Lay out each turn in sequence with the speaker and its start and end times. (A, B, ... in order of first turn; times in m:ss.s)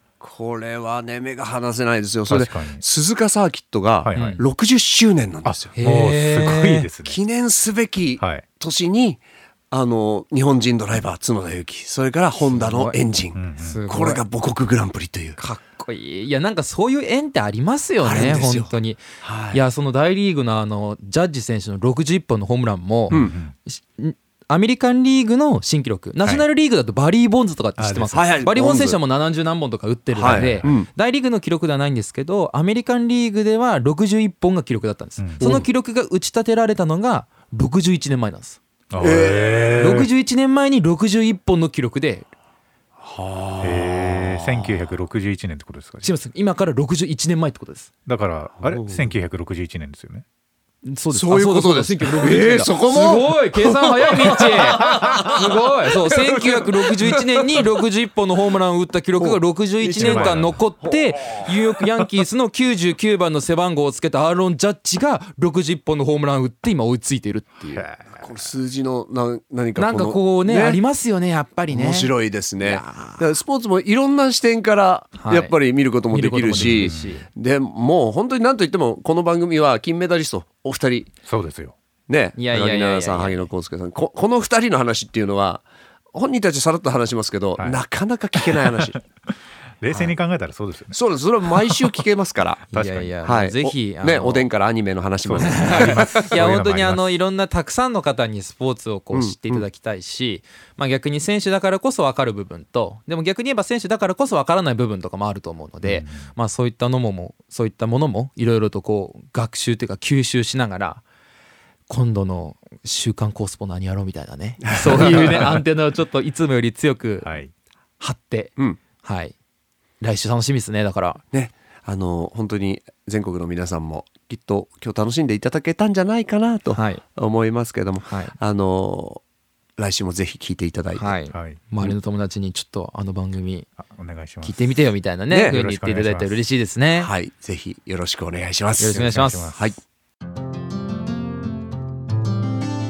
0:00.2-0:05.7 A
0:02.3-0:02.8 B
0:04.0-0:04.4 B
0:04.1-0:04.4 C
0:05.4-0:07.2 B
0:05.7-0:06.9 C
0:07.0-0:15.4 A
0:08.2-0:08.4 B
0:12.4-0:13.0 C
0:13.3-0:13.8 B
0:13.6-0:14.2 C
0:15.4-0:38.6 C
0:18.0-0:18.7 A
0:19.2-0:19.6 A
0:23.1-0:23.5 B
0:27.8-0:28.2 B
0:28.1-0:29.0 A
0:30.1-0:30.9 A
0:30.3-0:30.8 B
0:35.2-0:35.5 B
0:35.4-0:35.7 A
0:38.9-0:40.0 B
0:39.0-0:40.1 A
0:39.8-0:42.3 C
0:43.0-0:44.9 A
0:43.6-0:46.1 B
0:46.0-0:47.9 C
0:48.0-0:50.2 B
0:48.6-0:49.1 A
0:50.8-1:07.9 C
0:51.1-0:57.6 A
0:59.2-1:02.1 A
1:00.0-1:00.6 B
1:07.7-1:08.3 B
1:08.2-1:10.8 A
1:09.8-1:13.3 C
1:11.7-1:21.1 A
1:15.2-1:15.5 C
1:16.1-1:17.3 C
1:16.5-1:17.1 B
1:21.2-1:21.8 B
1:22.1-1:29.0 A
1:22.4-1:23.5 C
1:29.8-1:31.0 B
1:30.9-1:32.6 A
1:31.6-1:32.0 B
1:32.7-1:34.5 C
1:32.7-1:33.1 B
1:33.2-1:36.3 A
1:35.2-1:37.2 B
1:35.4-1:51.0 C
1:39.1-1:39.6 A
1:45.8-1:46.3 B
1:51.9-1:57.3 C
1:54.8-1:55.6 A
1:57.2-1:57.5 B
1:58.0-1:59.3 C
2:00.0-2:01.2 C
2:01.3-2:09.2 A
2:06.7-2:07.0 C
2:08.1-2:08.3 C
2:09.8-2:11.1 A
2:11.0-2:13.7 C
2:11.3-2:11.6 B
2:13.8-2:14.8 B
2:14.4-2:17.1 C
2:15.3-2:15.6 A
2:15.5-2:16.4 B
2:17.0-2:19.8 A
2:18.8-2:19.5 C
2:18.9-2:19.7 B